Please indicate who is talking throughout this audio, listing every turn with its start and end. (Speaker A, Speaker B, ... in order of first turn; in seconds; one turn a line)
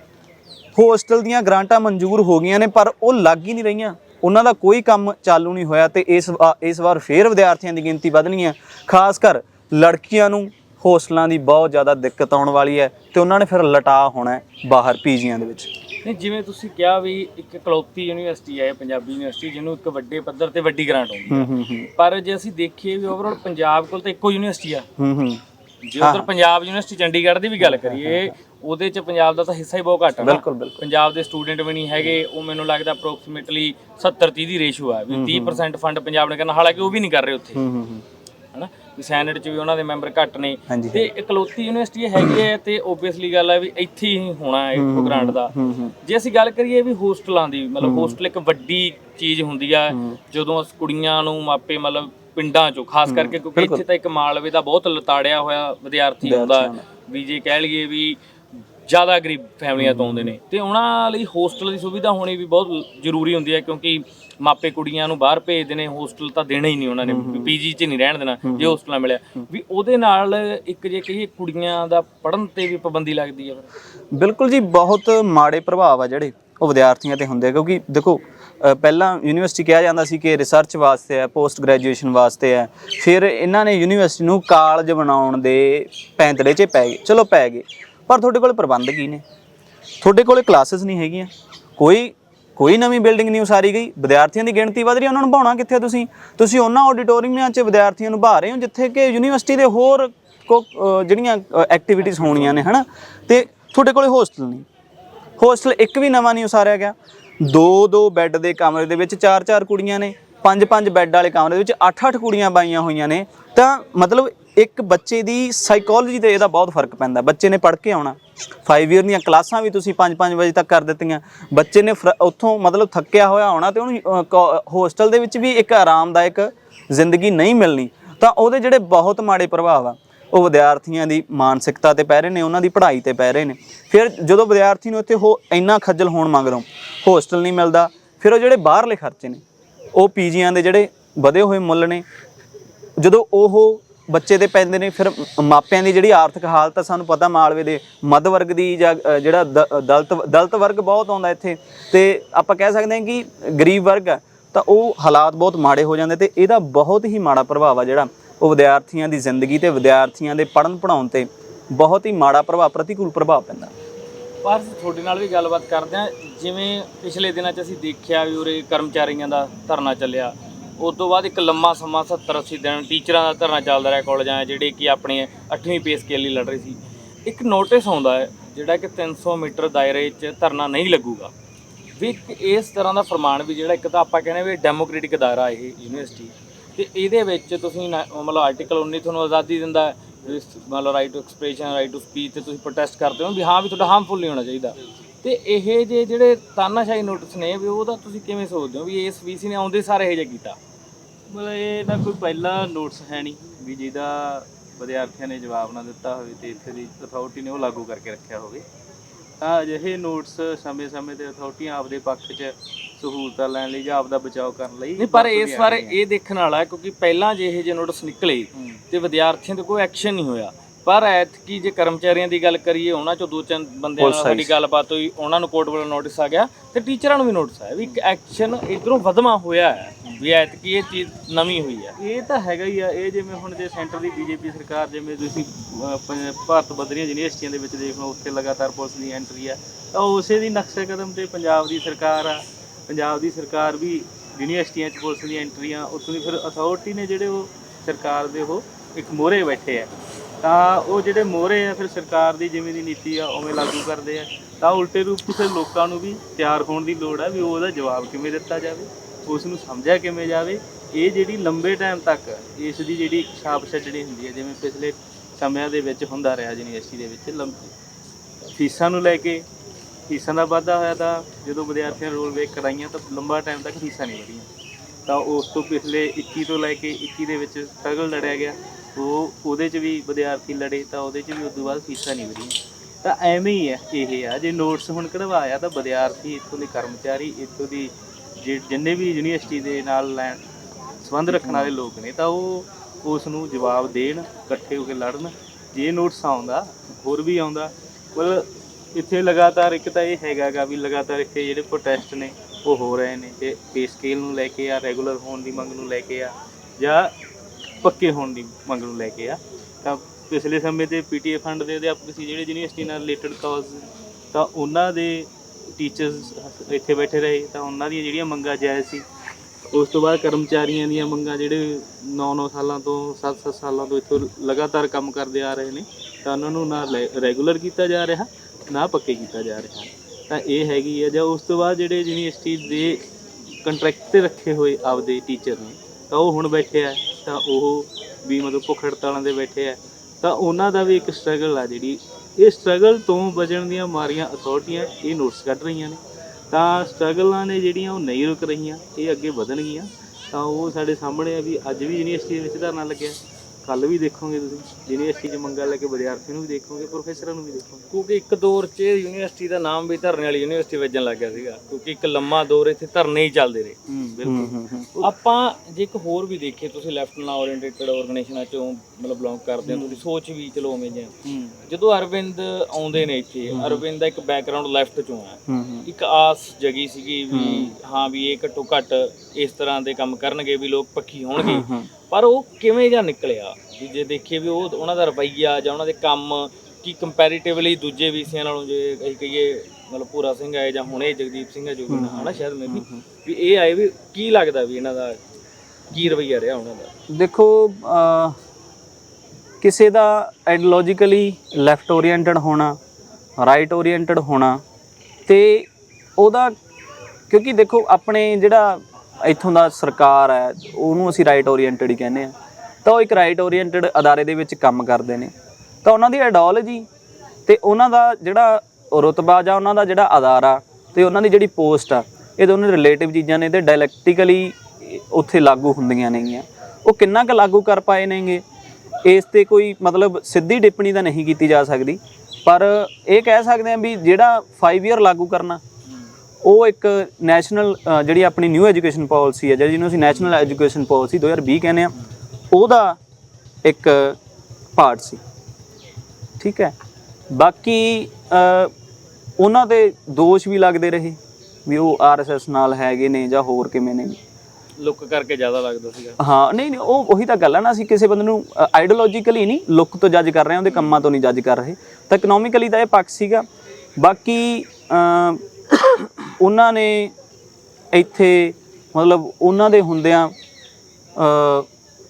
Speaker A: 0.8-15.7
Speaker B: 16.0-24.9
Speaker A: 21.3-21.9
Speaker A: 25.0-25.4
Speaker B: 25.9-37.6
Speaker A: 26.0-26.3
Speaker A: 27.6-28.3
Speaker A: 30.2-30.8
Speaker A: 35.1-35.6
Speaker A: 37.6-38.0
Speaker B: 38.5-58.2
Speaker A: 40.7-41.1
Speaker A: 44.8-45.9
Speaker A: 47.8-48.2
Speaker A: 49.9-50.2
Speaker A: 53.1-53.8
Speaker A: 56.2-56.8
Speaker B: 58.9-73.7
Speaker A: 59.8-60.3
Speaker A: 67.0-67.5
Speaker A: 68.5-68.8
Speaker A: 74.1-89.2
Speaker A: 90.0-104.7
Speaker A: 105.4-139.4
Speaker A: 139.9-142.0
Speaker A: 143.0-163.7
Speaker B: 164.4-181.3
Speaker B: 182.0-200.6
Speaker C: 201.3-208.7
Speaker C: 209.4-216.0
Speaker B: 215.0-232.0
Speaker A: 224.0-224.6
Speaker C: 232.0-249.9
Speaker C: 250.4-267.7
Speaker C: 268.5-269.4
Speaker C: 270.1-274.5
Speaker C: 275.1-290.4
Speaker C: 291.0-307.1
Speaker C: 307.8-319.1
Speaker C: 319.7-333.1
Speaker C: 333.6-357.9
Speaker B: 357.9-363.8
Speaker C: 363.9-365.1
Speaker A: 364.2-365.0
Speaker B: 365.0-371.1
Speaker C: 369.6-370.0
Speaker C: 371.2-371.6
Speaker B: 371.7-395.2
Speaker A: 373.5-373.8
Speaker A: 375.5-375.9
Speaker A: 377.3-377.7
Speaker A: 381.4-381.9
Speaker A: 391.9-393.0
Speaker B: 395.9-396.9
Speaker A: 397.1-398.4
Speaker A: 399.6-402.8
Speaker A: 403.4-404.6
Speaker A: 405.3-406.5
Speaker A: 407.3-415.3
Speaker A: 415.8-416.9
Speaker A: 417.5-428.4
Speaker A: 429.1-435.6
Speaker A: 436.4-441.9
Speaker A: 442.5-443.0
Speaker A: 443.6-444.2
Speaker A: 444.8-445.2
Speaker A: 446.4-446.8
Speaker A: 447.3-448.7
Speaker A: 449.4-454.2
Speaker B: 454.8-456.2
Speaker A: 456.2-463.4
Speaker A: 464.0-467.1
Speaker A: 467.9-470.3
Speaker A: 471.2-471.7